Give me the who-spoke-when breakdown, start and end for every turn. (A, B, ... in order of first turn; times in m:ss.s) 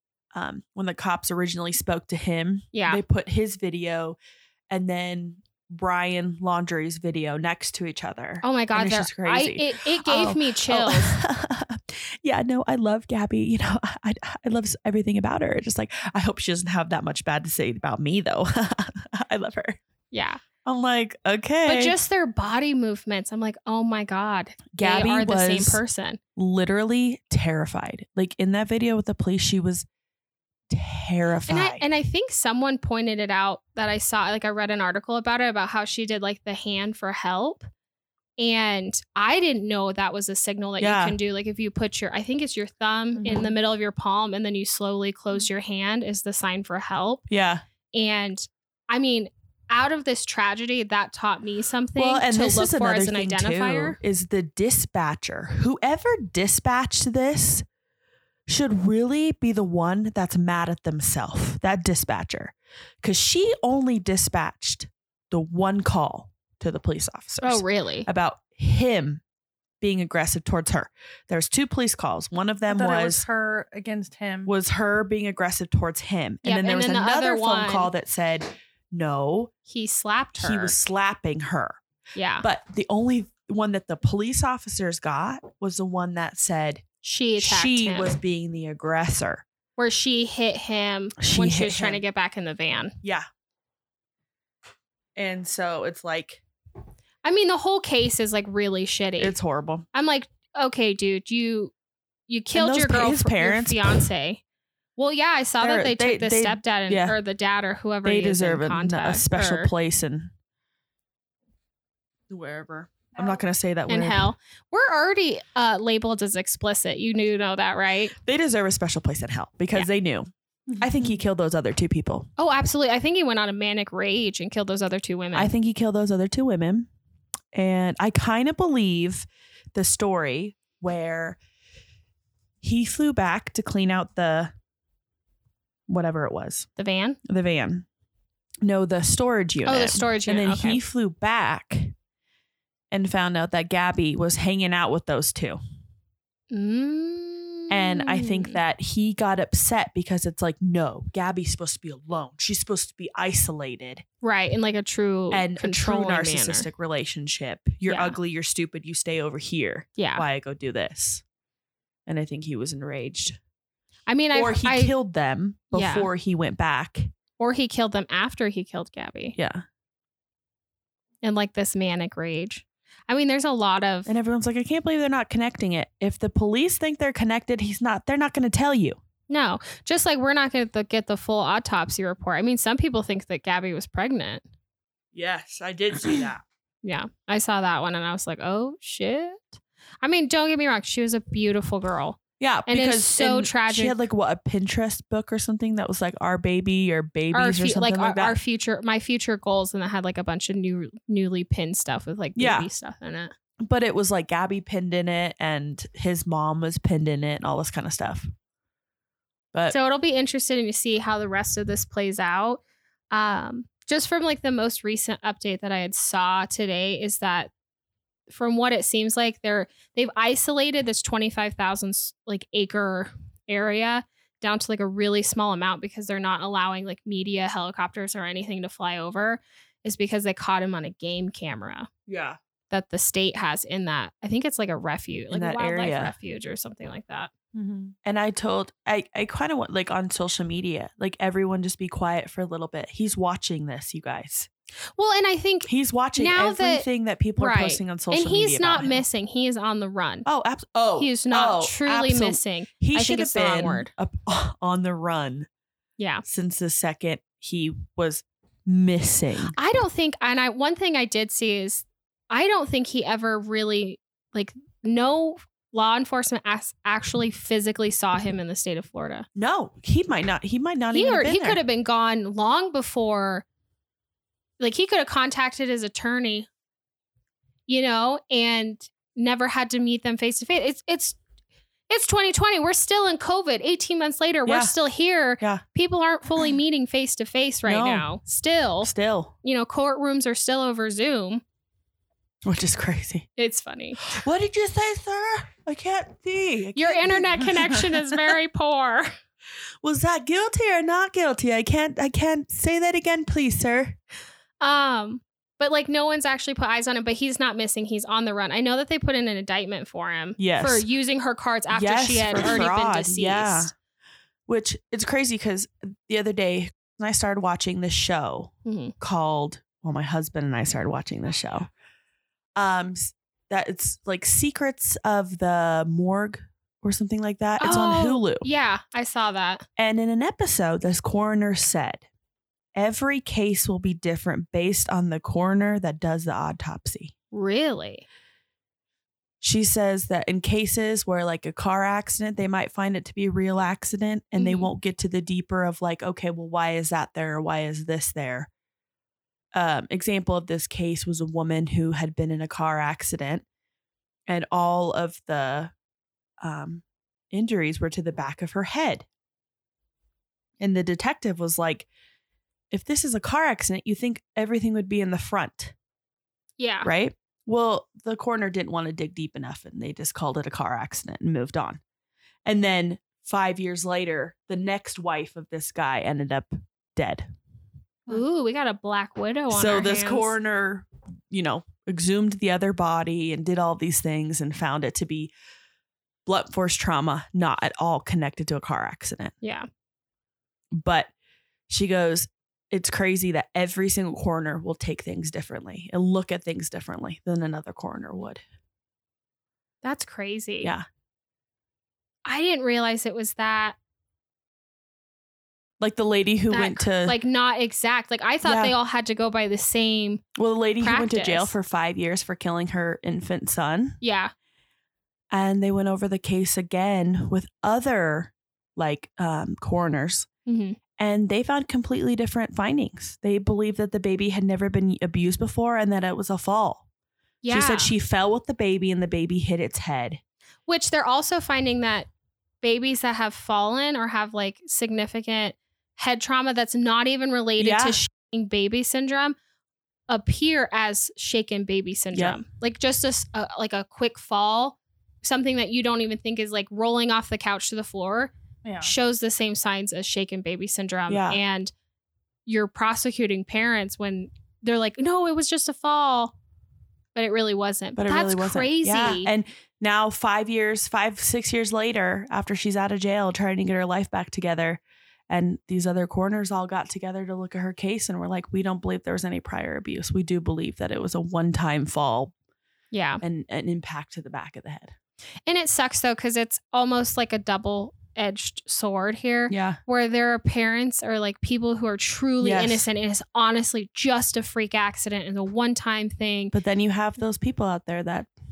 0:00.4-0:04.2 A
0:02.7-0:03.0 B
0:04.7-0:19.8 A
0:08.4-0:11.2 B
0:20.1-0:20.4 B
0:20.6-0:22.0 A
0:21.7-0:26.2 B
0:24.7-0:25.8 A
0:26.4-0:29.8 A
0:30.7-0:31.8 A
0:31.5-0:37.7 B
0:38.4-0:47.2 B
0:40.8-0:41.2 A
0:47.3-0:47.6 A
0:47.9-0:54.0 B
0:52.0-0:57.6 A
0:58.5-1:09.2 A
1:07.4-1:08.1 B
1:09.8-1:13.2 A
1:12.7-1:14.5 C
1:14.5-1:19.5 A
1:16.4-1:17.9 B
1:19.7-1:20.8 B
1:20.4-1:21.8 A
1:22.2-1:22.5 B
1:22.4-1:26.8 A
1:27.0-1:28.2 B
1:27.4-1:29.4 A
1:29.8-1:33.0 B
1:31.2-1:32.0 A
1:35.2-1:36.4 A
1:37.2-1:39.4 B
1:39.2-1:39.9 A
1:39.9-1:41.7 B
1:42.3-1:44.4 B
1:42.6-1:44.1 A
1:45.0-1:49.7 B
1:45.6-1:47.2 A
1:48.0-1:50.3 A
1:52.3-1:54.3 A
1:53.9-1:58.2 B
1:58.2-2:02.3 A
2:02.4-2:05.5 B
2:05.3-2:06.9 A
2:07.5-2:11.4 A
2:12.6-2:14.5 A
2:15.9-2:16.7 A
2:16.8-2:17.2 B
2:17.2-2:17.9 A
2:18.6-2:21.9 A
2:19.6-2:20.8 B
2:22.9-2:25.6 A
2:26.5-2:28.6 B
2:27.7-2:34.0 A
2:34.2-2:36.7 B
2:35.3-2:41.2 A
2:37.9-2:38.2 B
2:40.0-2:40.2 B
2:42.1-2:43.4 A
2:44.1-2:44.9 B
2:44.3-2:47.1 A
2:45.7-2:46.1 B
2:47.4-2:49.4 B
2:49.4-2:49.6 A
2:51.2-2:54.1 B
2:54.1-2:59.0 A
2:59.3-3:04.4 B
3:05.1-3:06.4 A
3:06.8-3:14.0 B
3:12.4-3:18.4 A
3:17.3-3:23.3 B
3:22.4-3:22.7 A
3:23.6-3:28.3 A
3:29.7-3:37.5 B
3:38.3-3:51.9 B
3:52.1-3:52.4 A
3:52.7-3:57.3 B
3:55.3-3:56.1 A
3:57.5-3:58.0 C
3:58.0-4:04.5 A
4:05.0-4:10.3 B
4:05.7-4:09.0 A
4:10.3-4:15.5 A
4:11.0-4:13.9 B
4:16.0-4:16.2 B
4:16.2-4:19.6 A
4:19.5-4:29.3 B
4:29.4-4:31.6 A
4:30.9-4:33.4 B
4:34.6-4:36.5 B
4:37.7-4:41.2 B
4:41.9-4:48.9 B
4:44.5-4:44.8 A
4:47.7-4:48.1 A
4:48.8-4:49.3 A
4:49.4-4:51.4 B
4:52.4-4:53.3 A
4:53.4-4:54.1 B
4:54.0-4:58.3 A
4:56.8-4:59.1 B
4:59.8-5:04.0 A
5:04.6-5:13.7 B
5:10.4-5:10.9 A
5:11.7-5:13.7 A
5:14.5-5:21.7 A
5:18.6-5:18.9 B
5:22.6-5:28.5 A
5:27.6-5:29.7 B
5:29.8-5:32.1 A
5:32.8-5:37.1 A
5:37.3-5:38.0 B
5:39.4-5:48.5 A
5:44.4-5:44.7 B
5:49.6-5:53.4 A
5:54.3-5:55.7 A
5:56.4-5:59.1 A
6:00.6-6:01.9 A
6:02.7-6:05.8 A
6:06.6-6:06.9 B
6:06.8-6:11.8 A
6:12.4-6:17.3 A
6:18.1-6:20.3 B
6:19.5-6:25.3 A
6:26.3-6:29.4 A
6:29.4-6:29.7 B
6:30.7-6:31.1 A
6:31.7-6:38.4 A
6:39.8-6:40.7 B
6:42.3-6:43.8 B
6:45.8-6:47.2 A
6:46.5-6:50.2 B
6:48.4-6:48.8 A
6:50.4-6:54.0 A
6:50.8-6:51.5 B
6:54.0-6:54.3 B
6:55.3-7:00.3 A
7:00.5-7:00.8 B
7:01.0-7:06.8 A
7:07.4-7:07.9 B
7:07.5-7:10.2 A
7:10.7-7:12.1 B
7:12.6-7:19.4 B
7:17.6-7:18.0 A
7:20.1-7:31.7 B
7:22.1-7:22.4 A
7:28.6-7:28.9 C
7:31.1-7:31.4 A
7:32.5-7:36.4 B
7:37.2-7:39.3 B
7:38.0-7:52.3 A
7:52.9-7:53.2 B
7:53.2-7:55.0 A
7:55.5-8:06.6 B
7:59.5-7:59.8 A
8:02.4-8:02.9 A
8:06.5-8:08.3 A